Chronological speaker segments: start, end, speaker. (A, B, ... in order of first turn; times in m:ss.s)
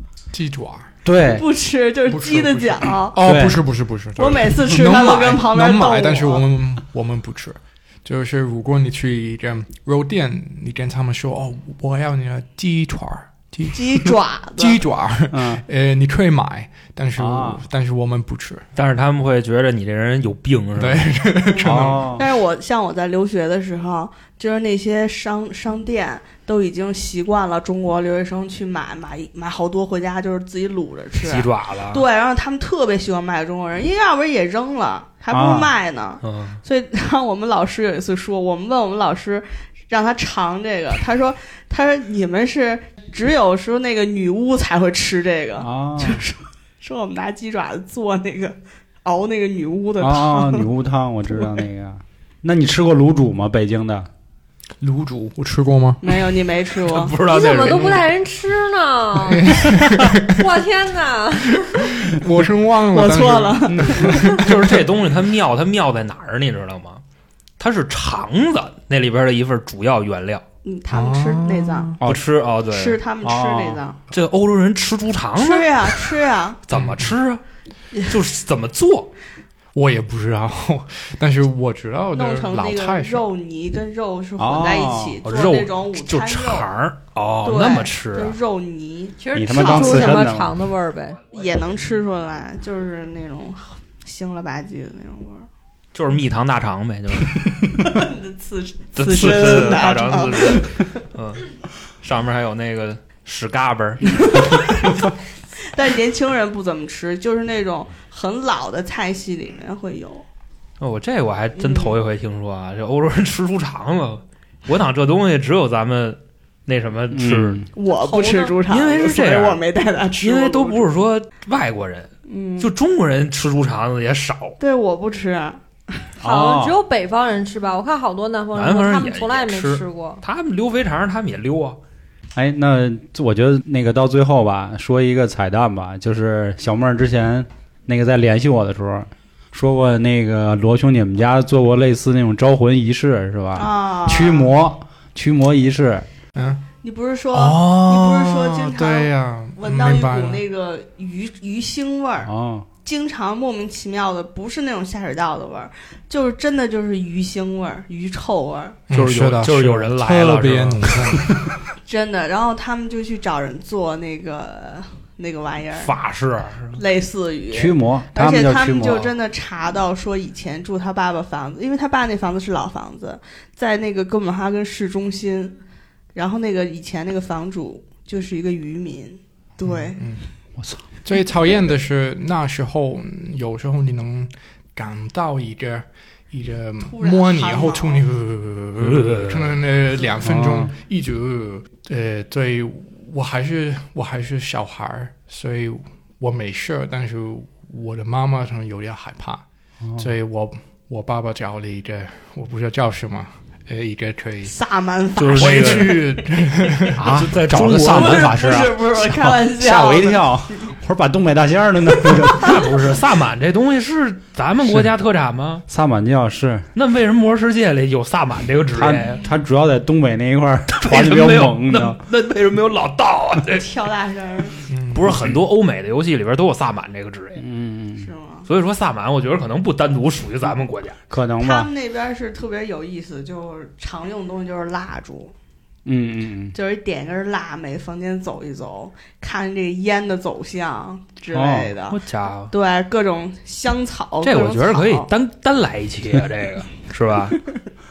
0:00.3-0:00.9 A
0:01.0-0:01.4 B
0:01.2-0:03.2 C
0:02.1-0:18.6 A
0:03.2-0:03.6 B
0:04.2-0:06.5 C
0:13.7-0:14.8 C
0:15.3-0:15.6 B
0:17.2-0:17.6 B
0:18.8-0:21.1 D
0:20.8-0:22.2 A
0:21.4-0:50.7 C
0:21.6-0:22.2 B
0:31.2-0:32.0 D
0:35.3-0:35.7 B
0:36.2-0:36.6 D
0:45.6-0:46.2 B
0:50.0-0:54.1 B
0:54.8-0:56.0 A
0:56.0-0:57.1 C
0:56.8-0:58.1 D
0:57.2-1:01.8 E
0:59.1-1:00.6 A
1:01.4-1:04.8 A
1:02.9-1:04.3 C
1:04.4-1:07.0 D
1:07.6-1:10.4 D
1:10.6-1:12.0 C
1:10.9-1:12.0 A
1:12.0-1:13.0 D
1:12.7-1:14.0 C
1:13.2-1:13.8 B
1:14.1-1:16.0 D
1:15.4-1:16.6 C
1:16.7-1:17.4 D
1:16.7-1:17.1 A
1:18.0-1:19.1 D
1:19.7-1:23.3 A
1:22.1-1:26.7 C
1:24.4-1:25.2 B
1:25.2-1:28.4 D
1:27.4-1:30.2 C
1:29.2-1:31.2 E
1:29.3-1:30.6 B
1:31.3-1:35.5 C
1:35.9-1:37.8 D
1:37.8-1:40.8 C
1:39.0-1:41.5 D
1:42.0-1:44.9 D
1:44.0-1:45.0 C
1:45.6-1:50.2 C
1:50.8-1:57.6 D
1:51.6-1:52.0 C
1:57.1-1:57.7 B
1:57.7-2:00.9 C
1:57.8-1:58.6 E
1:58.6-1:59.6 D
2:00.2-2:04.6 D
2:02.3-2:02.7 C
2:04.6-2:05.6 C
2:06.2-2:06.8 B
2:06.2-2:10.2 E
2:08.5-2:11.8 D
2:12.4-2:26.0 B
2:23.5-2:24.5 C
2:26.4-2:26.6 A
2:26.8-2:32.3 C
2:27.3-2:30.4 A
2:32.2-2:32.7 B
2:32.8-2:38.8 C
2:38.9-2:41.5 A
2:38.9-2:41.2 D
2:41.8-2:45.9 C
2:45.7-2:46.8 D
2:46.7-2:55.6 C
2:47.5-2:49.1 B
2:56.1-3:00.0 C
2:59.8-3:00.2 A
3:00.6-3:00.8 B
3:01.0-3:19.4 A
3:06.8-3:08.0 C
3:08.8-3:09.6 D
3:10.2-3:10.7 B
3:20.0-3:24.5 A
3:24.4-3:26.9 C
3:25.2-3:26.0 D
3:25.4-3:27.0 A
3:27.0-3:32.8 B
3:27.0-3:28.4 D
3:27.8-3:30.7 C
3:32.2-3:35.6 D
3:34.6-3:34.9 B
3:35.7-3:36.7 B
3:36.7-3:39.2 D
3:38.7-3:42.0 B
3:40.8-3:43.7 D
3:43.5-3:44.6 C
3:44.7-3:45.4 A
3:44.9-3:47.4 D
3:47.4-3:48.1 B
3:48.0-3:48.4 C
3:48.5-3:51.0 D
3:51.1-3:51.7 B
3:51.4-3:55.3 C
3:55.8-3:56.5 B
3:56.5-4:05.1 C
4:01.3-4:01.7 B
4:01.9-4:02.5 D
4:04.2-4:07.4 D